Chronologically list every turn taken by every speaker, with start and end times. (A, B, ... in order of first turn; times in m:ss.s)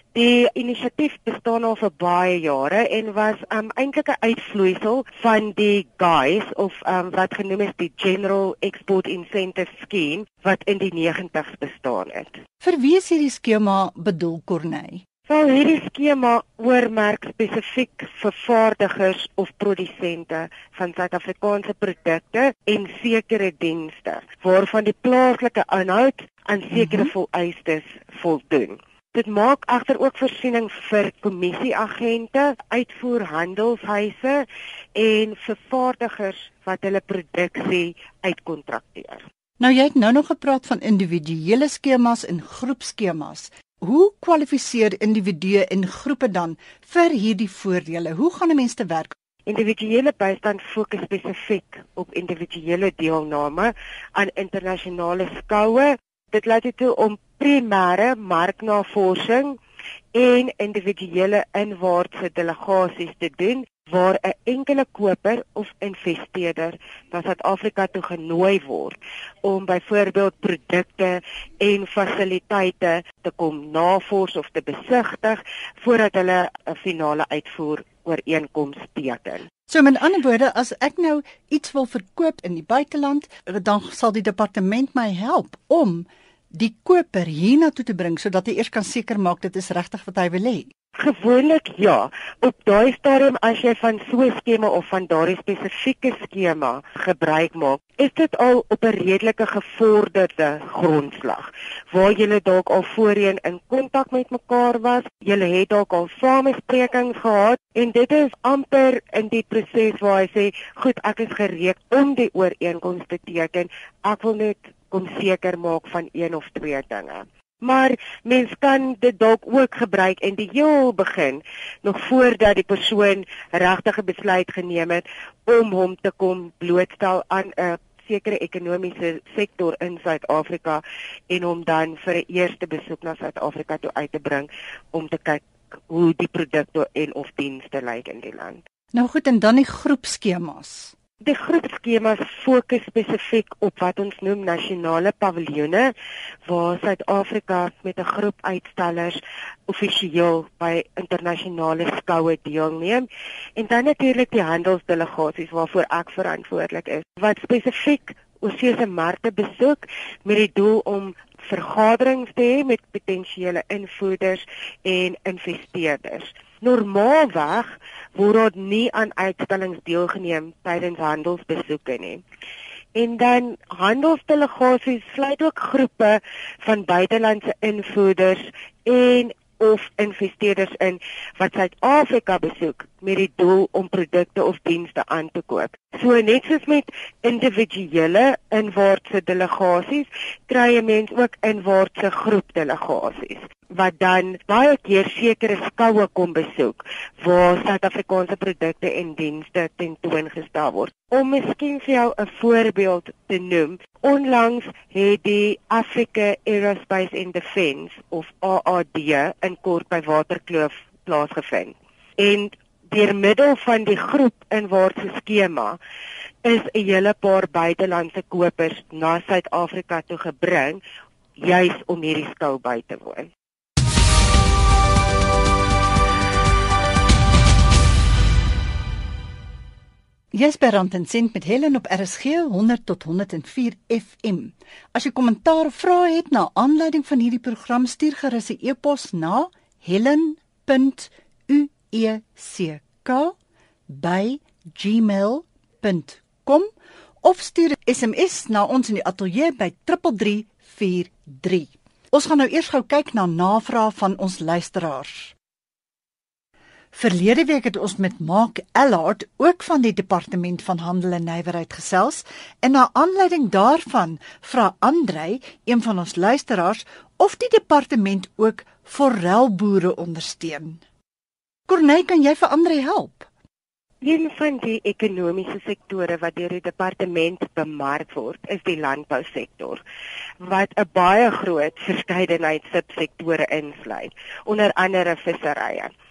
0:00.2-0:12.4 A
0:12.6-0:15.0 B
0:15.3-0:34.4 A
0:26.8-0:27.1 B
0:35.0-0:39.2 A
0:39.6-0:49.2 B
0:49.5-0:59.6 A
1:00.1-1:19.5 A
1:19.7-1:30.7 B
1:31.0-2:18.6 A
2:18.9-2:20.9 B
2:21.2-2:25.9 A
2:26.5-2:52.2 A
2:52.9-3:35.8 A
3:36.4-3:40.8 A
3:41.4-3:43.3 A
3:50.3-4:03.3 B
4:03.9-4:06.7 B
4:07.2-4:15.3 B
4:16.9-4:30.8 B
4:31.7-4:33.3 B
4:34.0-4:39.8 A
4:40.4-4:45.9 A